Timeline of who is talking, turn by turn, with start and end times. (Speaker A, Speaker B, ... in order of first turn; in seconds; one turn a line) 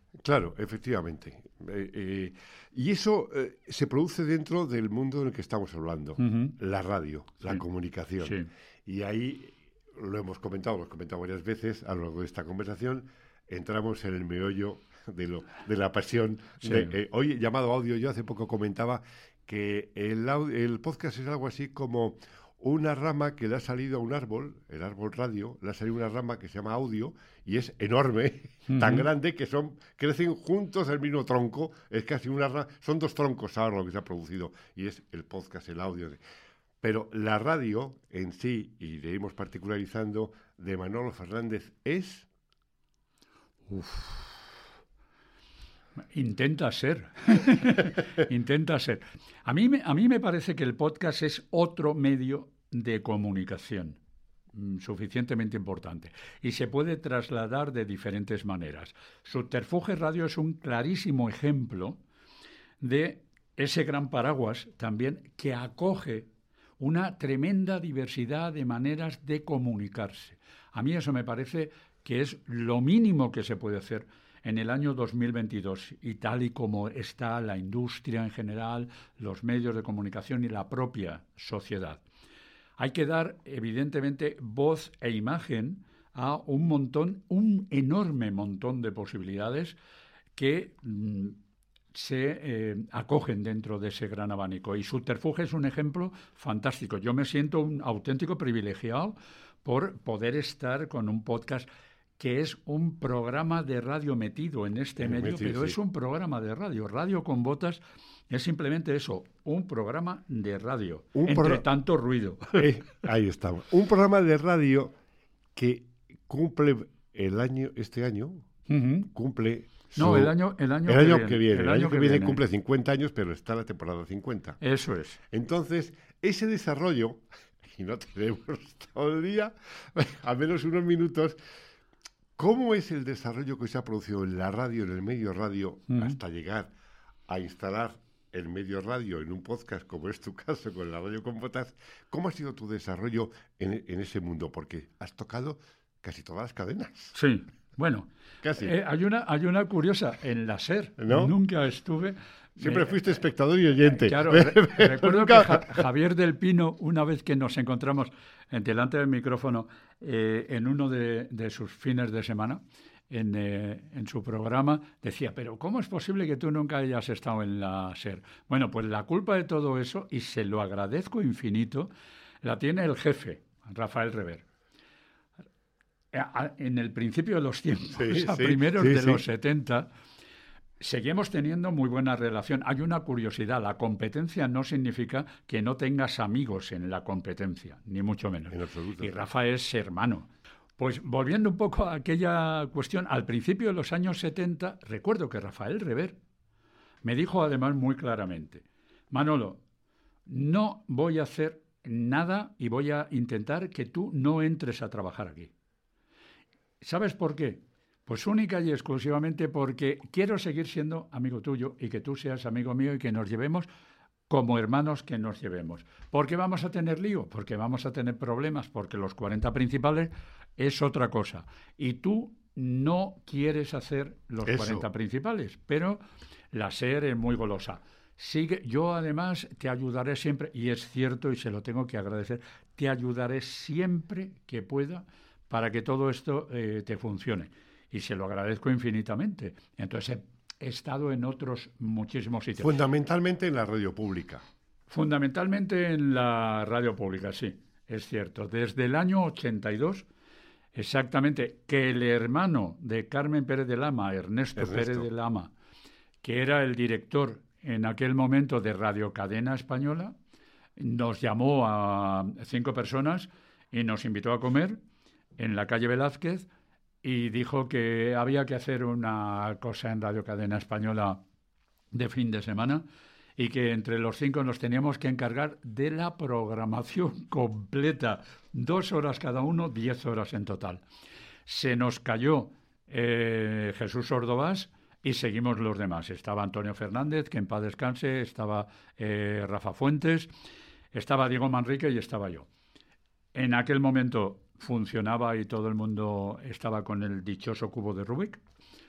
Speaker A: 0.2-36.2
Speaker B: 6.2-6.6
Speaker B: 8.2-8.5
Speaker B: 16.6-16.9
Speaker B: 28.7-29.1
Speaker A: 36.8-42.3
Speaker B: 43.7-44.4
Speaker B: 46.1-54.0
Speaker B: 54.5-62.0
Speaker B: 62.8-82.0
Speaker B: 82.8-89.8
Speaker B: 90.4-91.4
Speaker B: 91.9-112.7
Speaker A: 105.0-105.8
Speaker A: 111.1-111.7
Speaker A: 112.5-114.9
Speaker A: 115.6-118.5
Speaker B: 118.7-119.1
Speaker A: 119.1-124.6
Speaker B: 119.9-122.4
Speaker B: 124.6-125.2
Speaker A: 125.3-131.4
Speaker A: 132.4-136.7
Speaker B: 135.9-136.2
Speaker A: 137.3-147.2
Speaker B: 147.1-152.9
Speaker A: 148.4-148.8
Speaker A: 151.0-151.3
Speaker A: 152.6-155.8
Speaker B: 153.9-171.9
Speaker B: 172.4-174.4
Speaker B: 176.1-179.9
Speaker A: 178.0-179.2
Speaker B: 180.8-196.2
Speaker A: 188.5-189.1
Speaker B: 197.0-199.6
Speaker B: 200.3-205.5
Speaker B: 206.8-213.7
Speaker B: 214.3-242.7
Speaker A: 224.4-224.9
Speaker A: 242.6-244.4
Speaker B: 244.9-250.1
Speaker B: 250.8-255.5
Speaker A: 254.6-255.1
Speaker B: 256.2-260.2
Speaker B: 260.8-264.8
Speaker B: 265.4-266.5
Speaker B: 267.0-271.2
Speaker B: 271.9-272.9
Speaker B: 273.4-280.8
Speaker B: 281.5-290.3
Speaker B: 290.9-292.5
Speaker B: 293.3-298.4